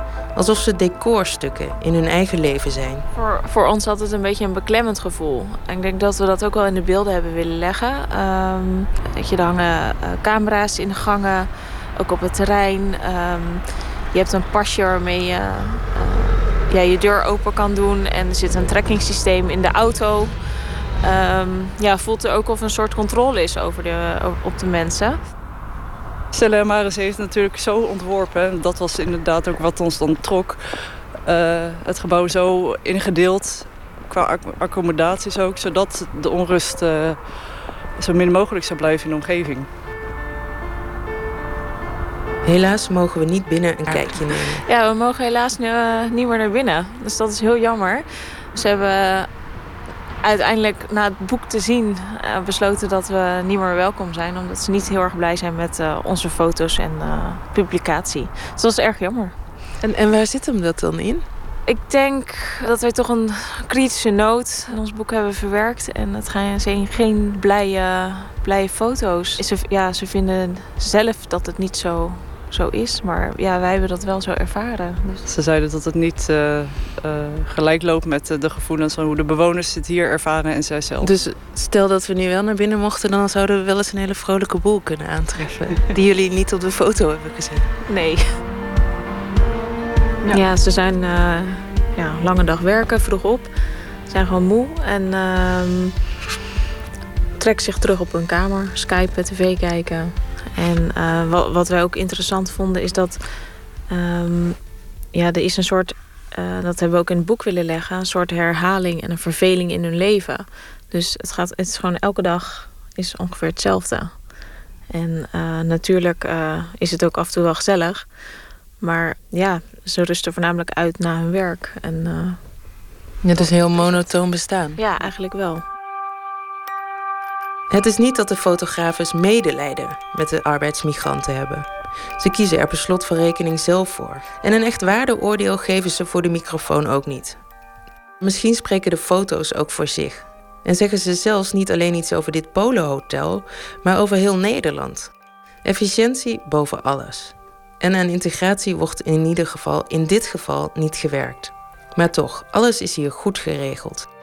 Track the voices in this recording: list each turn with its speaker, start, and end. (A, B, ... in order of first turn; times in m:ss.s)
0:00.4-0:03.1 A
0:03.1-0:20.4 B
0:21.0-0:25.2 B
0:26.3-0:37.4 C
0:38.0-0:39.7 C
0:42.4-0:44.6 A
0:44.6-0:49.3 B
0:50.2-0:59.3 B
0:59.8-1:01.3 A
1:01.7-1:15.2 B
1:15.3-1:21.2 C
1:21.0-1:27.7 A
1:27.9-1:28.4 B
1:30.3-1:33.5 B
1:34.1-1:36.0 B
1:37.4-1:43.2 B
1:43.9-1:44.6 B
1:45.1-1:54.2 B
1:54.9-1:58.1 B
1:58.8-2:02.4 B
2:03.2-2:04.8 A
2:03.4-2:04.1 B
2:04.8-2:05.6 B
2:07.7-2:11.7 A
2:12.2-2:17.4 A
2:18.2-2:25.1 A
2:25.6-2:34.1 A